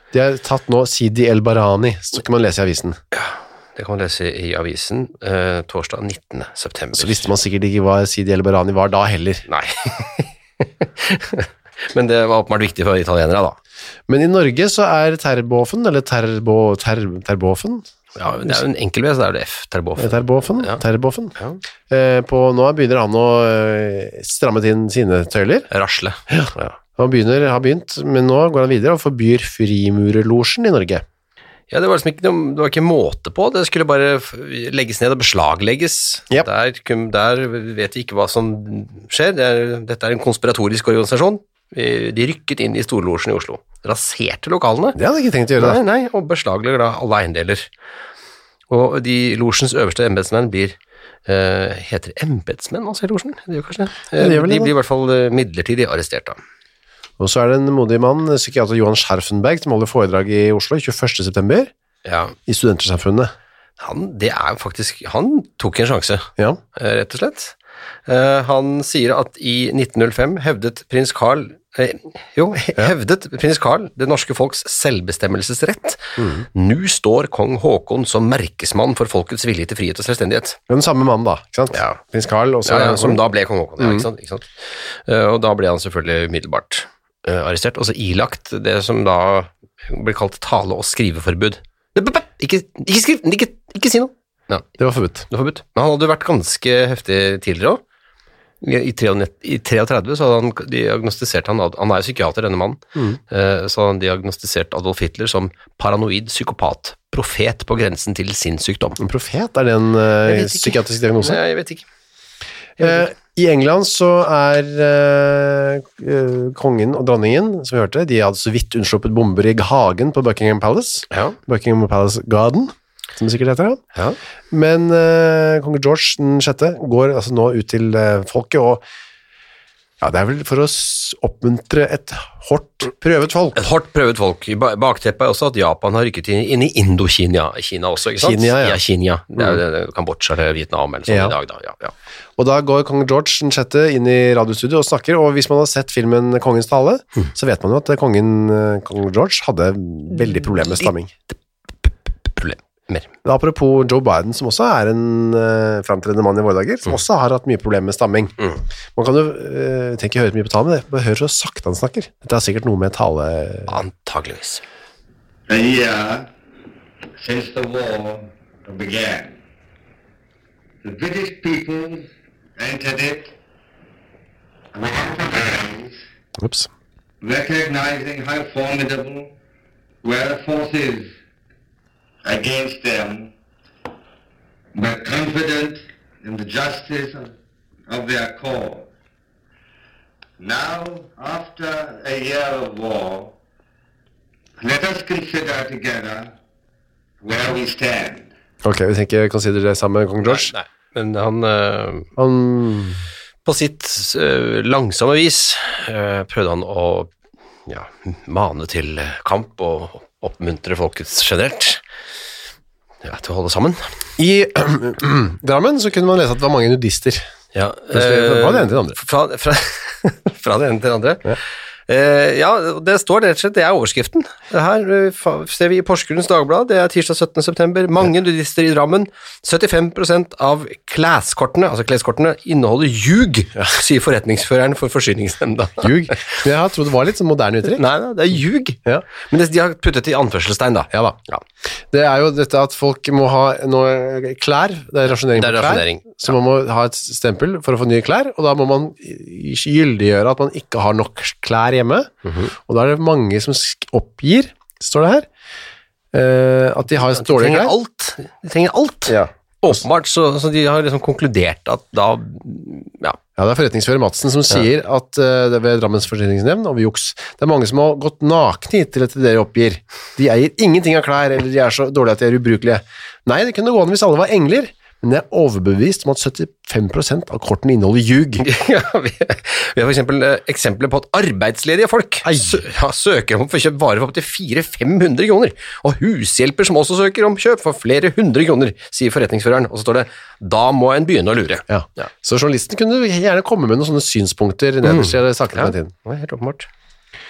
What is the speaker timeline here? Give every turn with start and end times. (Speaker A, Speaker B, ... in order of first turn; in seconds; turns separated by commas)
Speaker A: 0.1-3.0, Speaker B: 3.1-7.3, Speaker A: 6.9-9.4, Speaker B: 9.5-13.6, Speaker A: 14.1-17.9, Speaker B: 18.1-20.8, Speaker A: 20.0-21.4, Speaker A: 21.9-25.7, Speaker B: 25.7-26.8, Speaker A: 26.3-31.0, Speaker B: 31.7-45.0, Speaker A: 45.0-45.8, Speaker B: 45.6-47.7, Speaker B: 48.7-56.4, Speaker A: 54.1-54.7, Speaker A: 57.2-61.7, Speaker B: 62.0-62.3, Speaker A: 62.5-63.3, Speaker B: 63.8-80.6, Speaker A: 76.2-76.4, Speaker A: 80.7-83.2, Speaker B: 81.7-82.0, Speaker B: 82.6-94.7, Speaker A: 83.8-84.0, Speaker A: 94.8-95.3, Speaker B: 95.3-97.8, Speaker B: 98.6-109.0, Speaker A: 109.0-111.4, Speaker B: 110.2-111.8, Speaker A: 112.8-123.8, Speaker B: 121.1-121.3, Speaker A: 124.5-128.8, Speaker A: 130.0-133.7, Speaker B: 133.5-141.9, Speaker A: 138.2-138.8, Speaker A: 141.1-141.3, Speaker A: 142.4-151.1, Speaker B: 150.5-150.8, Speaker B: 151.8-153.1, Speaker A: 153.2-158.3, Speaker A: 158.9-163.8, Speaker B: 163.7-164.6, Speaker C: 165.5-166.3, Speaker C: 167.2-169.3, Speaker C: 170.8-172.1, Speaker C: 172.6-173.3, Speaker C: 174.7-176.0, Speaker A: 176.4-176.7, Speaker C: 177.2-179.3, Speaker C: 180.0-181.1, Speaker C: 182.2-183.3, Speaker C: 184.7-187.3, Speaker C: 187.9-188.9, Speaker C: 190.4-193.3, Speaker C: 194.6-196.3, Speaker C: 197.2-198.3, Speaker A: 198.6-200.5, Speaker B: 200.2-202.1, Speaker A: 202.2-203.0, Speaker B: 203.4-207.1, Speaker B: 207.7-211.8, Speaker B: 213.0-213.9, Speaker A: 214.2-217.3, Speaker B: 217.5-236.4, Speaker A: 217.9-219.0, Speaker A: 235.8-237.8, Speaker B: 237.6-241.4, Speaker A: 240.9-241.2, Speaker A: 241.9-255.2, Speaker B: 245.3-246.2, Speaker B: 252.2-252.5, Speaker A: 256.1-257.7, Speaker B: 256.9-263.2, Speaker A: 259.1-259.8, Speaker A: 263.4-278.4, Speaker B: 278.4-292.1, Speaker A: 291.7-295.9, Speaker B: 294.8-296.7